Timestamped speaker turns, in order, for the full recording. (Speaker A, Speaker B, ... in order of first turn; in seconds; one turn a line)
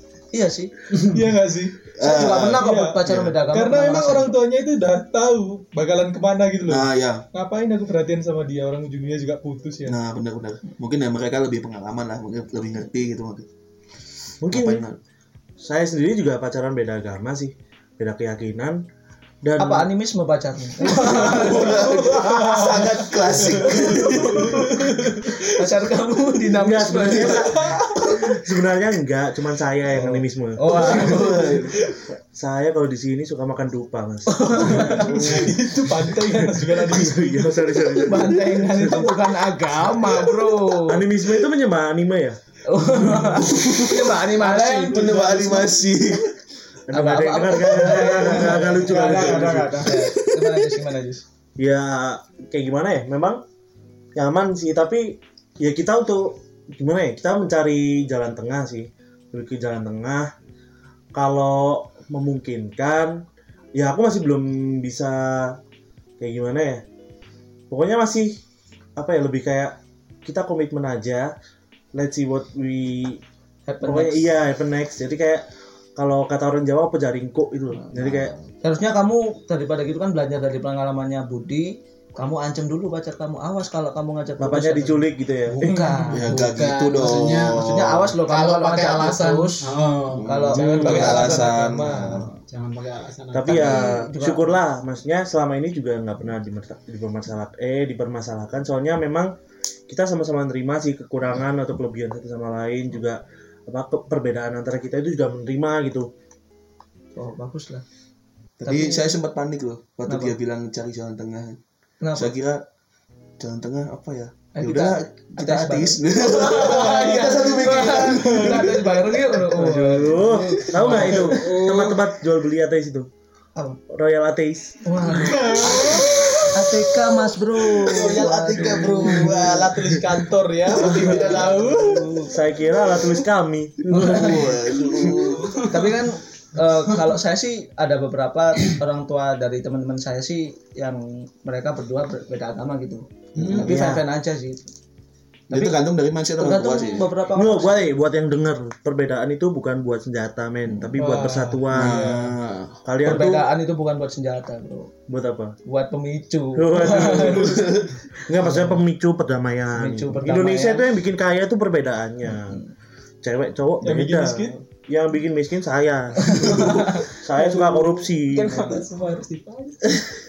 Speaker A: 0.3-1.1
Speaker B: 1.0-3.0
Speaker C: 1.9-3.4
Speaker A: 2.0-4.3
Speaker B: 3.5-10.0
Speaker C: 6.7-7.2
Speaker C: 9.9-13.5
Speaker D: 14.4-14.9
Speaker C: 14.4-15.0
Speaker D: 15.6-18.8
Speaker D: 19.4-19.9
Speaker A: 19.6-23.0
Speaker C: 20.9-25.3
Speaker B: 21.5-25.5
Speaker A: 23.6-28.3
Speaker D: 26.5-31.2
Speaker B: 27.3-28.2
Speaker A: 30.6-31.6
Speaker C: 30.7-31.8
Speaker B: 31.0-32.0
Speaker D: 32.3-39.1
Speaker A: 34.3-35.5
Speaker B: 34.7-37.8
Speaker A: 38.0-41.1
Speaker C: 38.2-38.4
Speaker D: 40.8-42.4
Speaker A: 42.7-45.7
Speaker C: 43.1-44.2
Speaker E: 44.4-45.7
Speaker C: 44.9-46.4
Speaker D: 46.9-49.9
Speaker A: 46.9-49.2
Speaker E: 47.9-50.2
Speaker A: 49.9-51.2
Speaker D: 51.6-53.4
Speaker D: 54.2-60.3
Speaker D: 61.1-63.2
Speaker D: 63.8-65.6
Speaker D: 66.2-66.8
Speaker D: 67.7-68.4
Speaker D: 69.0-71.3
Speaker D: 71.9-73.2
Speaker A: 73.7-74.3
Speaker D: 73.8-78.3
Speaker A: 77.8-86.4
Speaker D: 84.4-85.9
Speaker E: 85.7-87.7
Speaker C: 86.1-88.1
Speaker A: 87.6-92.2
Speaker E: 88.3-91.1
Speaker C: 90.1-92.3
Speaker B: 90.6-92.3
Speaker E: 92.5-93.8
Speaker D: 93.3-99.3
Speaker A: 93.5-94.5
Speaker D: 99.9-106.1
Speaker A: 107.2-107.8
Speaker C: 108.6-111.6
Speaker A: 108.6-109.2
Speaker A: 110.1-110.3
Speaker A: 112.0-112.3
Speaker C: 112.2-112.6
Speaker C: 113.4-119.4
Speaker A: 114.5-121.4
Speaker B: 116.5-118.8
Speaker D: 119.5-123.1
Speaker E: 120.9-122.0
Speaker D: 123.9-124.8
Speaker A: 124.8-129.4
Speaker B: 125.1-126.5
Speaker B: 127.8-132.3
Speaker C: 127.9-129.9
Speaker A: 130.7-132.3
Speaker D: 132.3-135.3
Speaker C: 133.9-135.9
Speaker A: 133.9-134.6
Speaker A: 135.7-144.6
Speaker D: 143.4-144.0
Speaker C: 143.4-143.8
Speaker C: 145.5-147.1
Speaker A: 145.5-145.8
Speaker A: 146.4-147.9
Speaker D: 147.3-152.3
Speaker A: 150.7-150.9
Speaker B: 151.0-152.3
Speaker C: 151.7-152.8
Speaker D: 152.8-153.5
Speaker A: 153.0-154.9
Speaker D: 155.1-155.6
Speaker A: 155.7-157.7
Speaker D: 156.6-162.6
Speaker C: 157.3-157.9
Speaker A: 158.4-158.7
Speaker A: 159.8-160.8
Speaker D: 163.2-168.9
Speaker B: 163.8-164.6
Speaker A: 166.3-167.1
Speaker B: 166.3-169.9
Speaker E: 168.3-169.1